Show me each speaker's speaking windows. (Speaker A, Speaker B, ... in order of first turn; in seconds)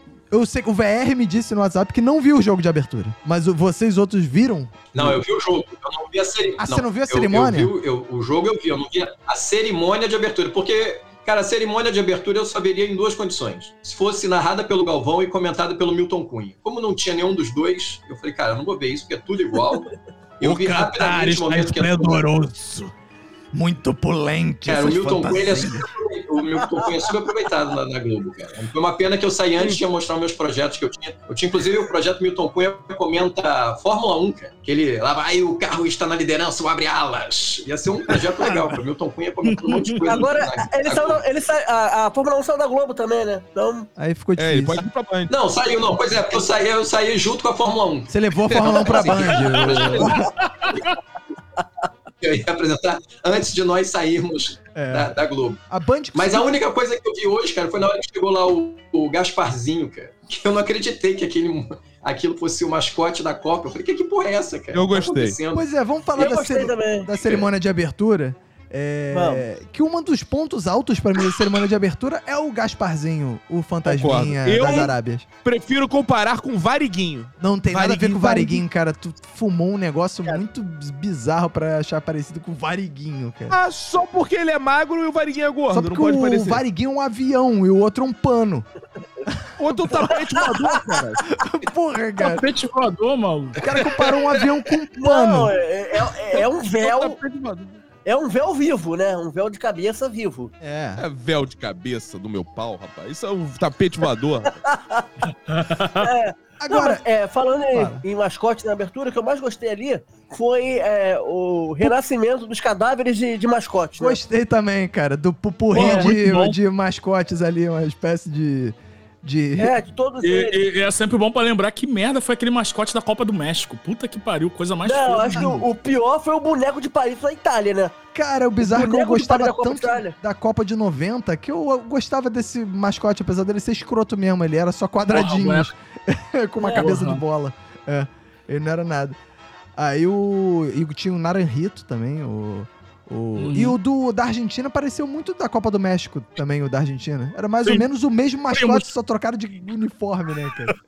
Speaker A: 0.3-5.2, 6.6-7.7, 20.4-22.9, 23.5-25.9, 44.0-44.8, 48.1-50.3, 54.8-55.1, 55.7-56.6, 65.5-75.3, 77.4-83.6, 85.7-88.7, 91.3-92.5, 93.6-95.5, 100.6-101.0, 106.6-107.0, 107.7-108.0, 114.0-119.7, 125.4-125.6, 128.1-139.2, 139.8-150.8
Speaker B: 5.0-22.3, 24.7-41.2, 45.3-50.8, 52.2-55.6, 56.1-65.7
Speaker C: 39.4-40.0, 49.5-49.8, 50.4-50.9, 92.2-93.8, 105.5-106.1, 115.7-116.6, 120.2-125.6, 135.1-135.7, 136.7-137.2, 143.4-143.8, 148.5-148.9
Speaker D: 40.0-43.9, 66.2-67.1, 69.1-69.5, 90.1-90.5, 95.0-97.2, 98.0-100.5, 104.6-105.1, 105.8-114.2, 115.8-116.1, 119.6-120.7, 124.8-127.9, 128.6-130.2, 136.6-136.9
Speaker E: 44.4-45.3, 64.7-65.4, 73.9-74.9, 75.4-78.6, 83.5-86.6, 89.6-91.2, 96.8-97.8, 101.0-104.6